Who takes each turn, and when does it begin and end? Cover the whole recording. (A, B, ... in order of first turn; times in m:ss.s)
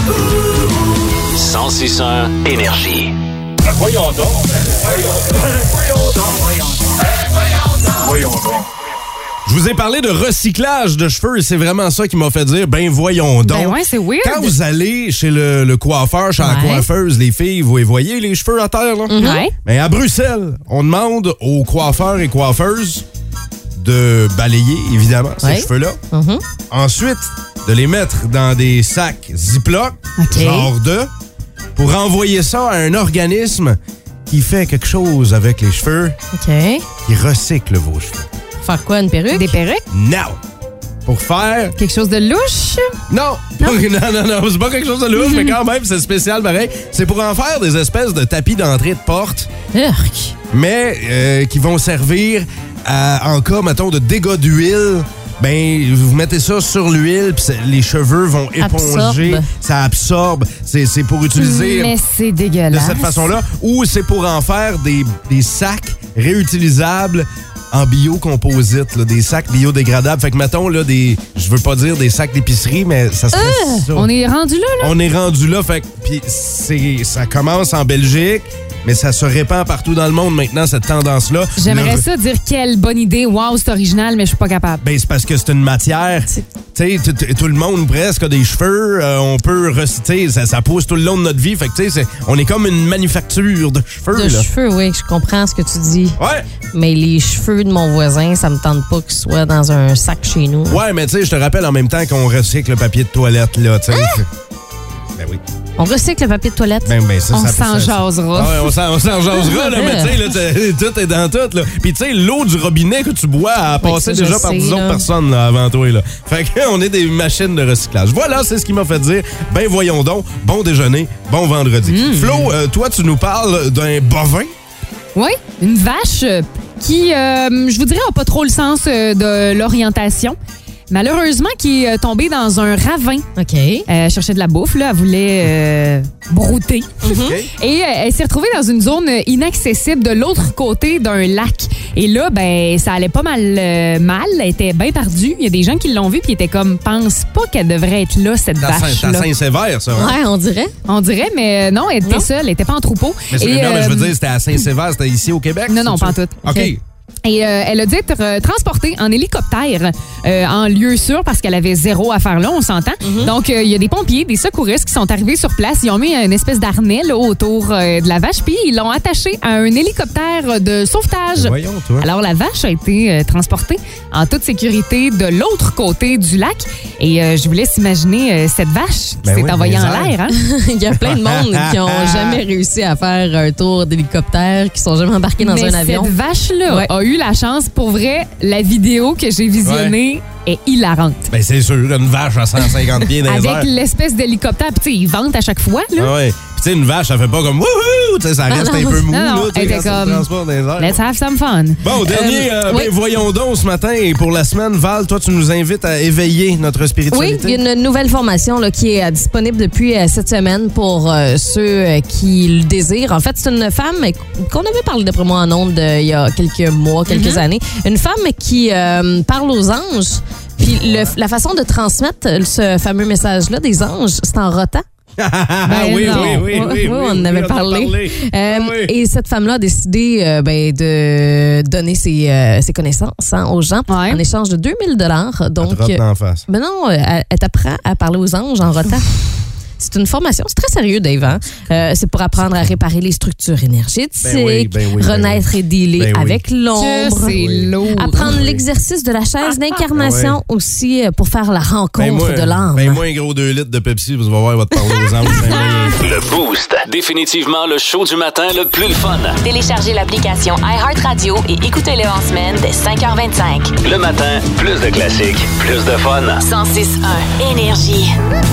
0:01.3-0:03.1 A
0:03.7-0:05.0 B
0:08.0-0:08.6 B
0:09.4-0:19.1 C
0:13.4-0:14.5 D
0:16.4-0:16.9 E
0:19.1-0:19.5 E
0:19.2-0:19.5 D
0:19.6-0:23.0 C
0:23.8-0:26.0 C
0:25.4-0:26.4 E
0:26.7-0:31.1 C
0:30.2-0:30.7 D
0:31.8-0:36.2 C
0:36.3-0:36.9 E
0:37.0-0:38.3 C
0:38.6-0:39.6 E
0:39.3-0:39.8 D
0:39.9-0:40.4 C
0:41.0-0:41.7 C
0:41.8-0:43.0 D
0:43.1-0:49.5 C
0:45.2-0:45.5 D
0:49.7-0:50.3 E
0:50.5-1:01.9 C
0:58.6-0:59.5 E
1:01.3-1:03.2 D
1:02.7-1:14.1 C
1:13.3-1:13.8 E
1:13.9-1:14.9 D
1:14.8-1:22.0 C
1:21.6-1:24.8 D
1:24.8-1:34.5 C
1:34.1-1:36.2 E
1:36.2-1:36.4 C
1:36.7-1:40.8 E
1:40.7-1:44.3 C
1:45.8-1:46.9 E
1:46.8-2:04.5 C
1:47.3-1:48.7 D
1:49.4-1:50.2 E
1:53.8-1:55.0 E
2:01.8-2:02.5 D
2:05.1-2:10.4 D
2:10.9-2:13.3 D
2:13.4-2:13.9 E
2:13.9-2:29.3 D
2:17.0-2:17.4 E
2:17.2-2:17.5 C
2:28.6-2:30.2 C
2:29.9-2:30.7 E
2:30.9-2:34.1 D
2:33.3-2:36.8 C
2:35.7-2:36.7 D
2:37.2-3:00.4 D
2:43.0-2:43.3 E
2:51.4-2:52.0 C
2:59.2-3:00.1 C
3:00.4-3:06.1 E
3:01.0-3:02.4 C
3:05.4-3:11.3 D
3:09.6-3:09.9 C
3:11.3-3:13.7 C
3:13.3-3:16.1 D
3:16.0-3:21.0 C
3:18.5-3:19.0 E
3:19.1-3:20.2 D
3:20.8-3:21.9 D
3:21.8-3:27.6 C
3:22.0-3:22.8 E
3:27.1-3:44.8 E
3:37.1-3:37.4 D
3:40.8-3:41.1 C
3:45.2-3:48.9 C
3:45.6-3:46.5 D
3:45.9-3:59.1 E
3:53.9-3:54.2 D
3:55.6-3:56.4 C
3:59.8-4:07.4 E
4:04.2-4:05.4 C
4:06.0-4:06.4 C
4:06.7-4:08.3 D
4:07.4-4:07.7 C
4:07.9-4:13.0 E
4:08.2-4:08.6 C
4:09.9-4:10.4 C
4:12.0-4:16.1 C
4:16.0-4:19.4 A
4:19.4-4:23.7 F
4:23.8-4:26.4 A
4:26.4-4:28.1 F